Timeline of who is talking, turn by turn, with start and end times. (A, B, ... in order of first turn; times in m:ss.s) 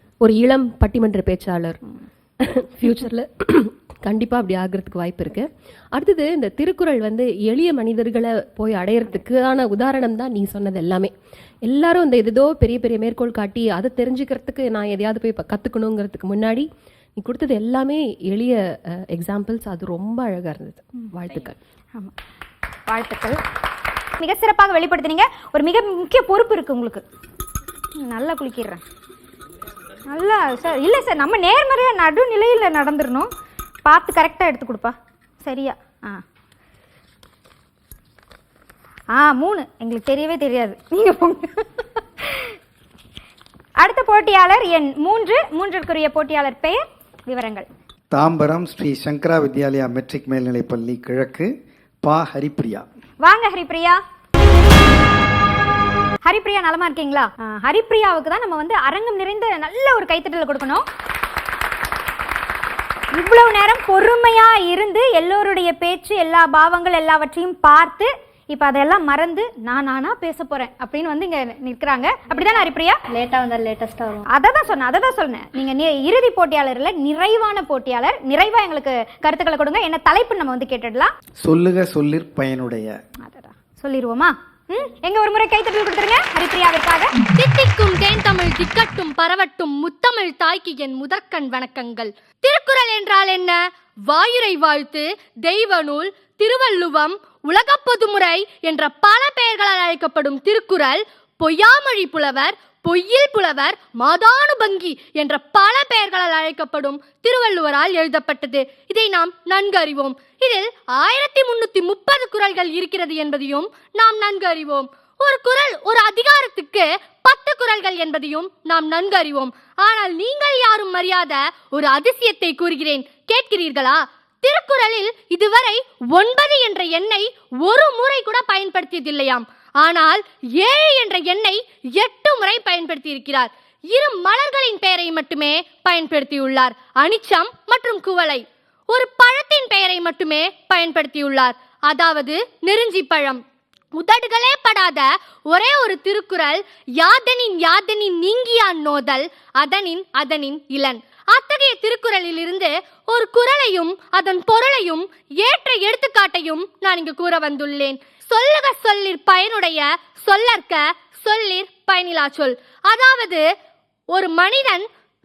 0:00.2-0:01.8 A
0:02.4-0:11.1 A
0:11.6-0:21.6 A
0:22.9-0:23.4 B
0:24.2-0:27.0 B
0:28.0-0:28.8 B
0:30.1-0:33.3 B
0:33.8-0:36.2 B
0:39.1-0:41.6 B
0:43.8-0:47.6 B
0:48.1-0:51.5 C
0:52.0-0:52.8 C
0:53.2-0:54.0 B
0:56.2-1:00.8 B
1:03.1-1:13.0 B
1:14.3-1:21.1 B
1:21.4-1:23.0 C
1:23.2-1:27.1 B
1:27.3-1:33.6 D
1:34.1-2:23.4 D
2:24.0-2:43.4 D
2:44.1-2:44.8 D